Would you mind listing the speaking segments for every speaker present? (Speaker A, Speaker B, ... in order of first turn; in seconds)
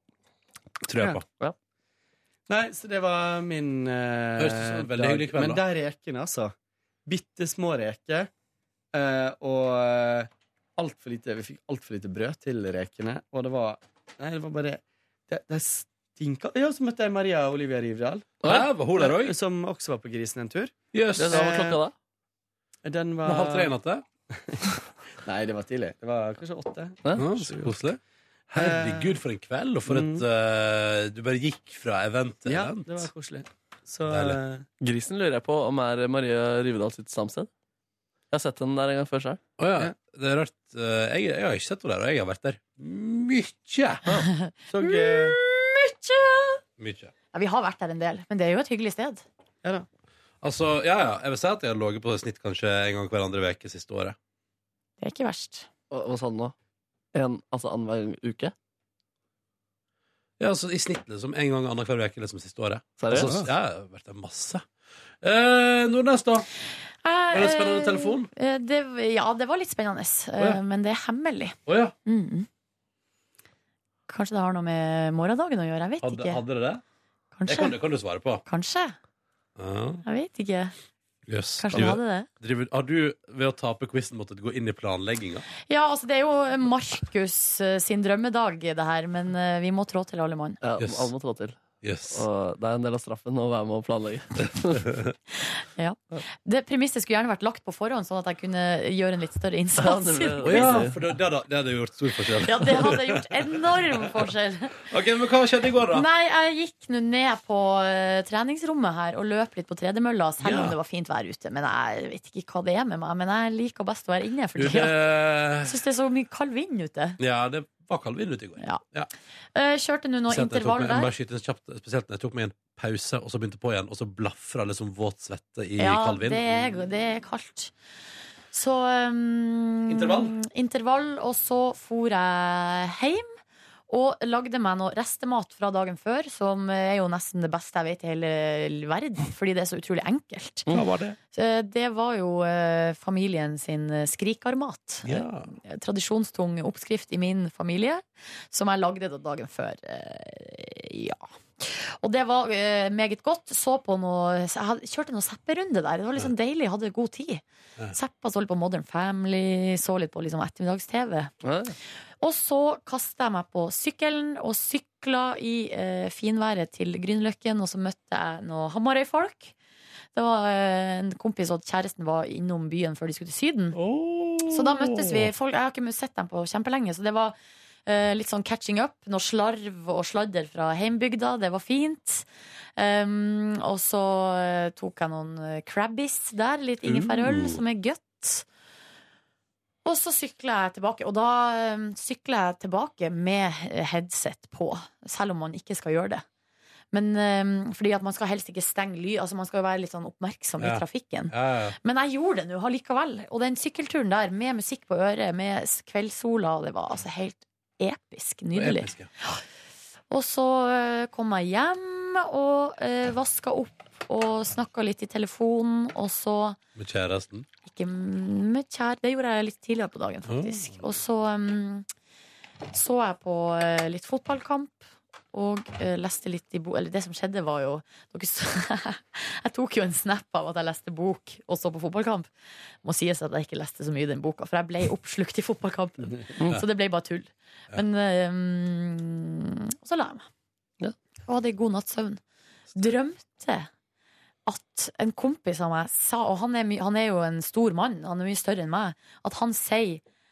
Speaker A: 0.8-1.2, 4.4-5.6, 18.4-19.4, 20.9-21.5, 23.2-24.1, 27.2-28.0, 28.5-33.1, 34.1-34.4, 39.6-44.1, 46.8-47.1, 50.4-54.2, 60.4-64.7, 65.2-66.5, 67.3-68.3, 71.7-72.0, 76.0-76.8, 77.5-78.4, 79.6-80.0, 81.3-85.5, 90.8-91.1, 91.8-92.3, 100.4-104.1, 104.9-106.1, 110.4-110.8, 114.6-115.8, 117.2-119.1, 120.3-126.7, 129.9-130.4, 140.7-141.2, 145.1-145.5, 173.7-175.3, 186.8-187.6, 200.6-201.8, 208.5-209.1, 216.8-217.5, 220.3-220.6
Speaker B: 2.5-6.5, 7.1-8.3, 8.9-20.8, 21.3-21.8, 22.9-23.7, 24.3-24.6, 25.2-27.9, 28.5-29.2, 29.9-30.2, 32.5-34.7, 44.7-45.4, 63.1-63.5
Speaker C: 18.4-18.7, 21.2-21.9, 34.8-37.5, 38.3-39.4, 55.9-56.5, 57.1-58.5, 63.0-63.3, 90.6-91.6, 92.1-95.0, 99.8-101.0, 161.4-161.8
Speaker D: 44.3-46.6, 47.3-49.2, 55.0-55.7, 67.0-72.5, 74.1-76.4, 77.4-77.8, 78.5-79.0, 80.0-80.8, 81.6-82.3, 85.7-90.6, 95.5-100.9, 102.4-104.9, 105.9-115.0, 115.5-117.2, 119.5-121.1, 125.8-127.7, 128.5-133.3, 133.9-140.7, 141.3-161.3, 162.2-169.5, 170.2-173.8, 174.5-177.3, 177.9-182.3, 182.8-188.5, 189.8-196.2, 196.9-209.4, 210.1-216.6, 217.7-221.9, 222.7-232.3, 232.8-240.2, 241.3-242.2, 242.8-243.7, 244.5-250.0